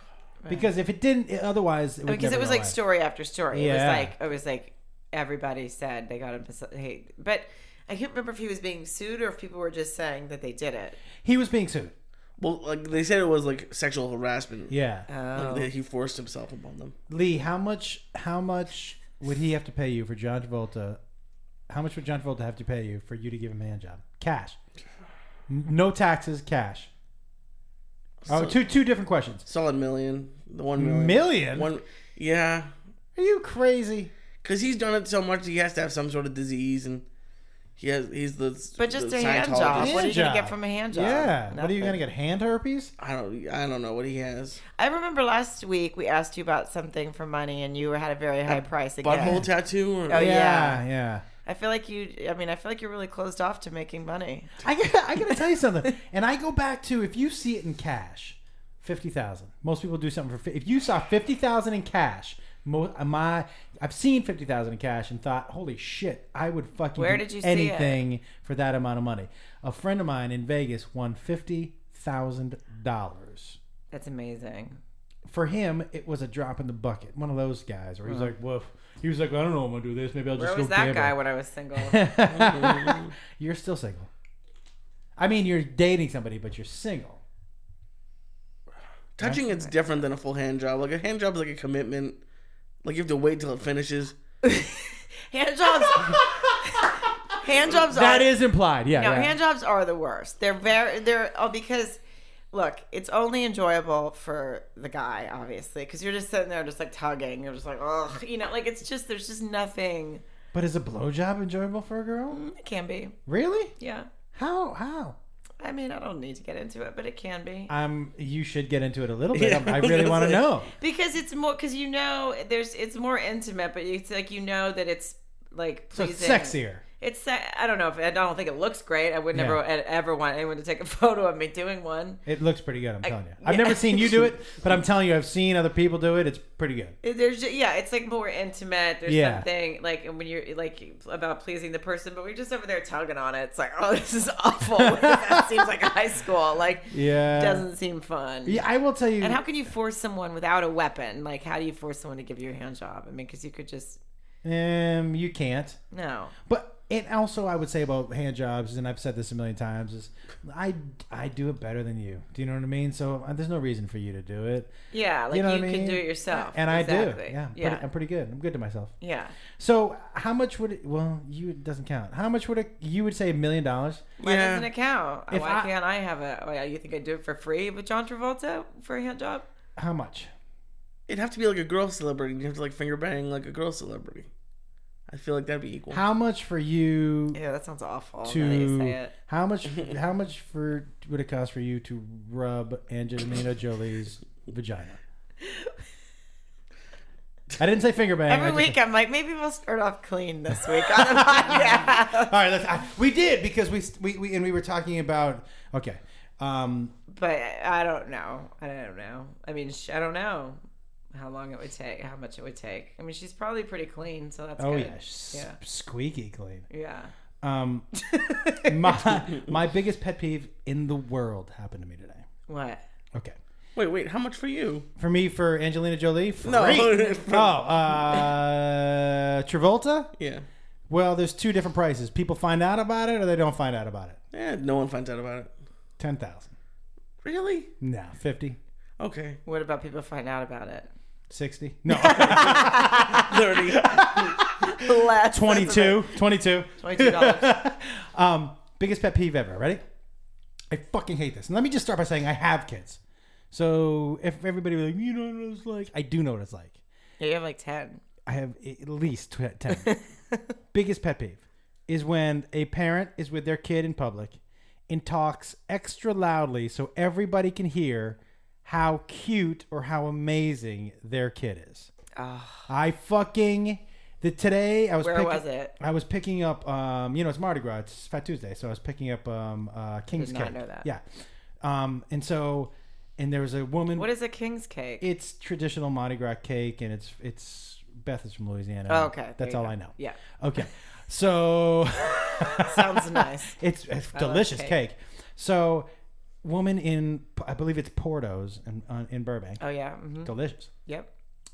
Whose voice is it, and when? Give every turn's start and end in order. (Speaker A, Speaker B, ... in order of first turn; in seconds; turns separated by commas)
Speaker A: 0.4-0.7, Speaker B: 0.5-2.8, Speaker A: 2.1-11.0, Speaker B: 3.5-4.1, Speaker B: 11.2-11.9, Speaker C: 12.4-14.8, Speaker B: 14.7-15.1, Speaker A: 15.1-15.7, Speaker C: 15.3-16.9, Speaker B: 17.1-21.0, Speaker B: 21.7-24.6, Speaker B: 25.5-26.9, Speaker C: 28.2-28.6, Speaker B: 28.3-29.5, Speaker C: 29.5-32.7, Speaker B: 30.8-31.7, Speaker B: 33.2-34.1, Speaker C: 34.4-37.1, Speaker C: 37.8-40.1, Speaker A: 38.8-42.0, Speaker B: 39.7-42.9, Speaker C: 43.0-44.6, Speaker A: 44.8-49.4, Speaker C: 49.0-50.3, Speaker B: 49.2-49.5, Speaker A: 50.1-50.8, Speaker B: 50.1-51.2, Speaker A: 51.5-54.5, Speaker B: 54.6-73.6, Speaker A: 67.0-68.0, Speaker A: 73.9-74.8, Speaker B: 75.3-81.2, Speaker A: 78.1-78.3, Speaker A: 80.4-82.1, Speaker B: 81.8-84.1, Speaker C: 82.3-83.1, Speaker B: 85.2-87.2, Speaker C: 89.2-92.2, Speaker C: 92.8-94.2, Speaker A: 94.4-98.3, Speaker B: 95.8-96.8, Speaker B: 97.7-99.4, Speaker A: 98.9-102.0, Speaker A: 102.5-110.2, Speaker B: 110.5-112.4, Speaker A: 112.3-113.2, Speaker B: 113.3-113.7, Speaker A: 113.8-114.1, Speaker B: 114.3-115.2, Speaker A: 115.6-117.7, Speaker B: 117.7-120.7, Speaker C: 119.3-120.4, Speaker A: 120.8-132.2, Speaker B: 125.9-126.8, Speaker B: 129.3-129.6, Speaker B: 132.3-137.0, Speaker A: 133.0-134.3, Speaker A: 137.0-148.6, Speaker B: 139.1-139.5, Speaker B: 144.8-145.4, Speaker B: 146.9-147.7, Speaker B: 148.5-149.4, Speaker A: 149.2-154.0, Speaker B: 154.4-155.8, Speaker A: 155.9-156.3, Speaker B: 156.5-164.7, Speaker A: 164.9-167.8, Speaker B: 165.3-168.9, Speaker A: 169.0-169.4, Speaker B: 169.5-174.1, Speaker A: 174.2-179.5, Speaker C: 174.2-174.7, Speaker B: 175.3-175.7, Speaker B: 179.8-180.3, Speaker C: 181.1-184.3, Speaker C: 185.1-186.0, Speaker B: 185.9-187.4, Speaker A: 187.3-189.1, Speaker B: 188.2-195.0, Speaker A: 195.4-195.7, Speaker B: 197.6-198.8, Speaker A: 198.3-202.3, Speaker B: 200.7-206.9, Speaker A: 207.1-210.6, Speaker A: 211.1-215.6, Speaker B: 214.6-216.7, Speaker A: 216.7-217.1, Speaker B: 217.4-217.9, Speaker A: 218.0-219.1, Speaker B: 218.6-222.3, Speaker A: 222.5-222.8, Speaker C: 223.8-224.9, Speaker B: 225.0-230.1, Speaker C: 226.4-228.2, Speaker C: 230.2-230.5, Speaker B: 230.9-234.2, Speaker C: 234.3-235.5, Speaker B: 236.0-236.5, Speaker C: 237.2-237.7, Speaker B: 237.8-238.6, Speaker C: 239.0-239.4, Speaker A: 239.4-240.9, Speaker B: 241.3-249.8, Speaker A: 241.9-243.3, Speaker C: 242.2-244.4, Speaker A: 244.4-246.2, Speaker A: 246.8-247.5, Speaker B: 250.7-253.0, Speaker B: 253.5-256.8, Speaker A: 257.2-258.0, Speaker B: 258.3-259.9, Speaker A: 259.7-260.4, Speaker B: 260.7-271.9, Speaker A: 272.2-272.7, Speaker B: 272.7-281.0, Speaker A: 275.0-275.7, Speaker A: 280.1-280.9, Speaker B: 281.6-284.1, Speaker A: 284.0-285.1, Speaker B: 285.0-295.9, Speaker A: 288.9-290.2, Speaker A: 292.4-293.6, Speaker A: 294.1-294.8, Speaker B: 296.4-299.6, Speaker A: 299.6-300.3, Speaker B: 300.2-300.7